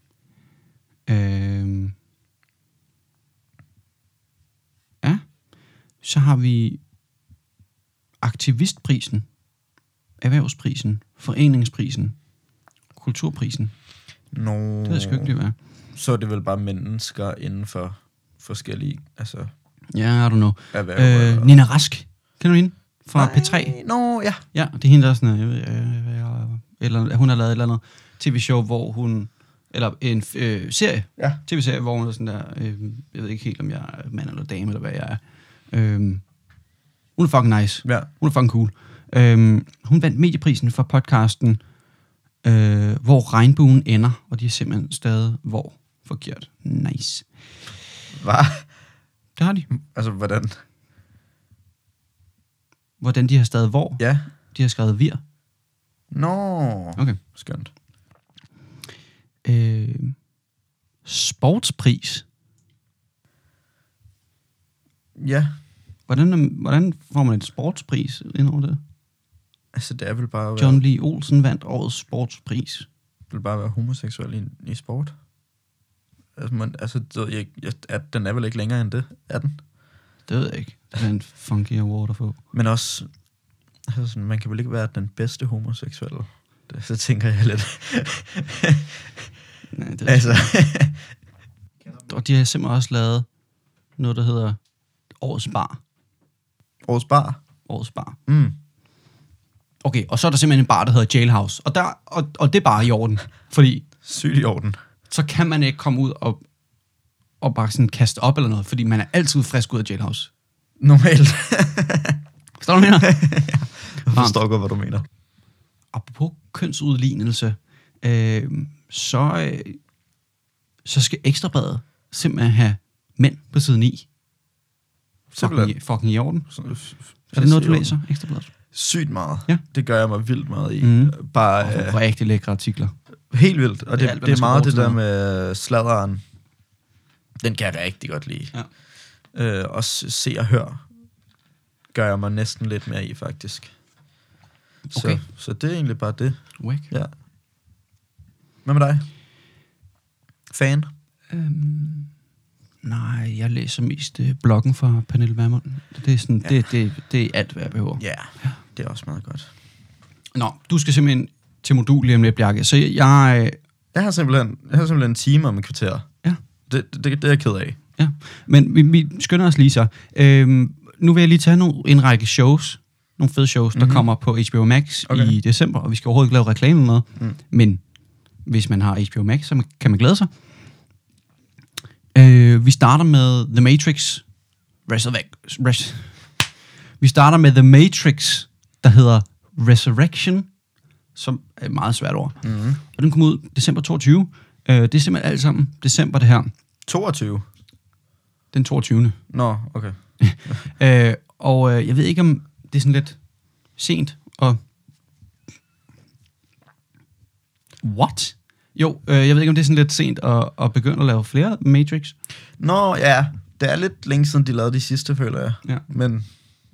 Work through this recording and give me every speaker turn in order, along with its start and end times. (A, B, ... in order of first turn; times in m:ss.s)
0:01.1-0:01.9 A
0:05.0-0:05.4 A
0:06.0-0:06.8 A
0:08.2-0:09.3 A
0:10.2-0:12.2 A
0:13.0-0:13.7 A
0:14.3-0:15.3 B
0:14.8-0:15.6 A
0:16.0-0:19.5 B
0:19.9-0:23.8 A
0:20.7-0:21.6 B
0:23.2-0:24.4 B
0:24.5-0:36.2 A
0:37.2-0:41.6 A
0:42.4-0:47.3 A
0:48.2-0:48.7 B
0:49.4-0:49.7 A
0:49.7-0:50.6 B
0:53.0-0:55.2 A
0:54.0-0:54.3 B
0:56.1-0:57.7 B
0:59.4-1:00.2 A
1:01.0-1:02.2 A
1:05.2-1:05.6 B
1:06.1-1:08.8 A
1:09.7-1:10.8 B
1:10.6-1:12.9 A
1:13.3-1:15.2 B
1:16.4-1:19.6 B
1:20.3-1:22.4 A
1:22.5-1:23.1 B
1:23.9-1:29.0 B
1:29.7-1:30.5 A
1:30.1-1:31.0 B
1:32.0-1:33.3 A
1:34.0-1:34.6 A
1:35.2-1:35.8 A
1:36.8-1:37.4 B
1:37.7-1:38.2 A
1:38.3-1:38.6 B
1:39.8-1:43.9 A
1:44.0-1:44.8 B
1:45.1-1:46.4 A
1:47.4-1:50.3 A
1:50.8-1:52.2 B
1:52.6-1:53.2 A
1:53.0-1:55.1 B
1:54.1-1:54.4 A
1:55.9-1:59.8 A
2:00.8-2:04.1 A
2:05.3-2:05.8 B
2:05.4-2:06.6 A
2:06.5-2:07.9 B
2:07.3-2:08.5 A
2:08.7-2:12.0 B
2:10.8-2:12.9 A
2:13.3-2:16.2 B
2:14.0-2:15.0 A
2:17.4-2:18.6 B
2:19.3-2:20.9 B
2:21.9-2:23.7 B
2:24.9-2:25.2 A
2:24.9-2:27.1 B
2:26.6-2:26.9 A
2:28.6-2:29.0 B
2:30.5-2:30.9 B
2:31.3-2:32.1 A
2:32.8-2:38.6 A
2:38.0-2:39.5 B
2:40.4-2:43.6 A
2:43.9-2:46.1 B
2:46.7-2:47.8 B
2:48.0-2:57.8 A
2:53.8-2:54.0 B
2:55.1-2:55.4 B
2:58.4-3:00.3 A
3:02.2-3:04.2 A
3:04.9-3:06.2 A
3:07.0-3:10.5 A
3:11.2-3:16.5 A
3:12.4-3:12.8 B
3:16.9-3:17.4 B
3:18.5-3:19.2 A
3:19.3-3:20.5 B
3:20.2-3:23.2 A
3:23.7-3:24.6 A
3:27.8-3:32.2 A
3:32.6-3:36.3 B